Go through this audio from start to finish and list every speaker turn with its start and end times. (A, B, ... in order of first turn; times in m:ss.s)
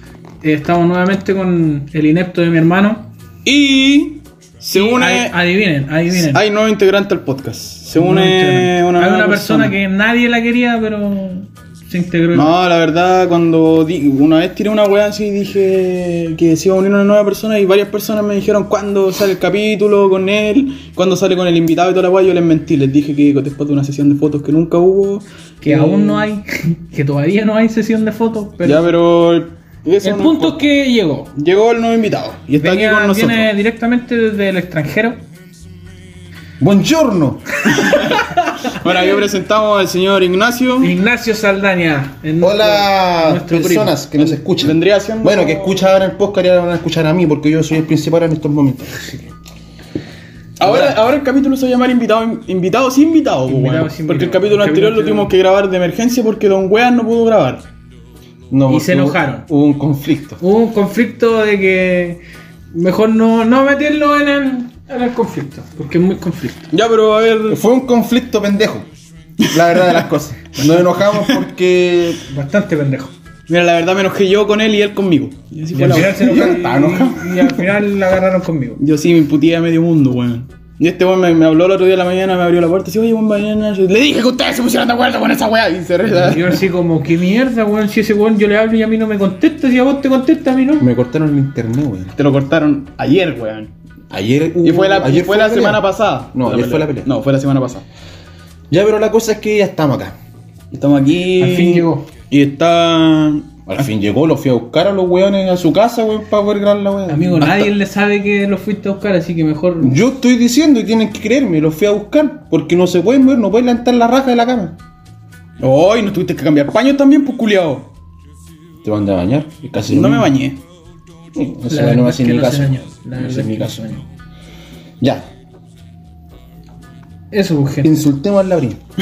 0:00.4-0:03.1 A
0:03.4-0:05.4 B
0:04.7-0:06.4 A
0:06.1-0:09.8 B
0:07.9-0:12.5 A
0:12.3-0:26.3 B
0:25.6-0:28.9 A
0:28.6-0:30.6 B
0:30.0-0:31.3 A
0:31.4-0:33.5 B
0:32.6-0:35.2 A
0:36.6-0:37.4 C
0:37.7-0:39.1 A
0:37.7-0:40.9 B
0:40.8-0:43.9 A
0:42.4-0:49.3 C
0:44.2-0:45.8 B
0:50.6-0:57.6 B
0:50.6-0:51.0 C
0:53.5-0:55.3 A
0:58.5-1:00.4 C
0:58.7-0:59.5 A
1:00.4-1:02.2 A
1:02.7-1:06.7 A
1:06.7-1:07.6 B
1:07.5-1:08.9 C
1:09.4-1:10.0 B
1:09.5-1:12.2 C
1:11.1-1:11.4 B
1:12.2-1:13.1 A
1:13.5-1:16.5 B
1:15.7-1:18.8 A
1:15.9-1:17.7 C
1:18.8-1:26.6 B
1:26.1-1:30.8 A
1:30.8-1:32.1 C
1:32.2-1:33.7 B
1:34.1-1:37.1 C
1:34.6-1:37.8 B
1:38.7-1:40.2 C
1:40.7-1:43.6 B
1:41.4-1:42.0 A
1:43.7-1:47.7 C
1:47.1-1:50.0 A
1:49.8-1:54.8 C
1:55.6-1:57.9 B
1:58.8-2:00.3 C
1:59.9-2:00.6 B
2:01.3-2:03.8 C
2:01.7-2:04.0 A
2:05.0-2:05.2 C
2:07.3-2:08.0 A
2:07.8-2:08.8 C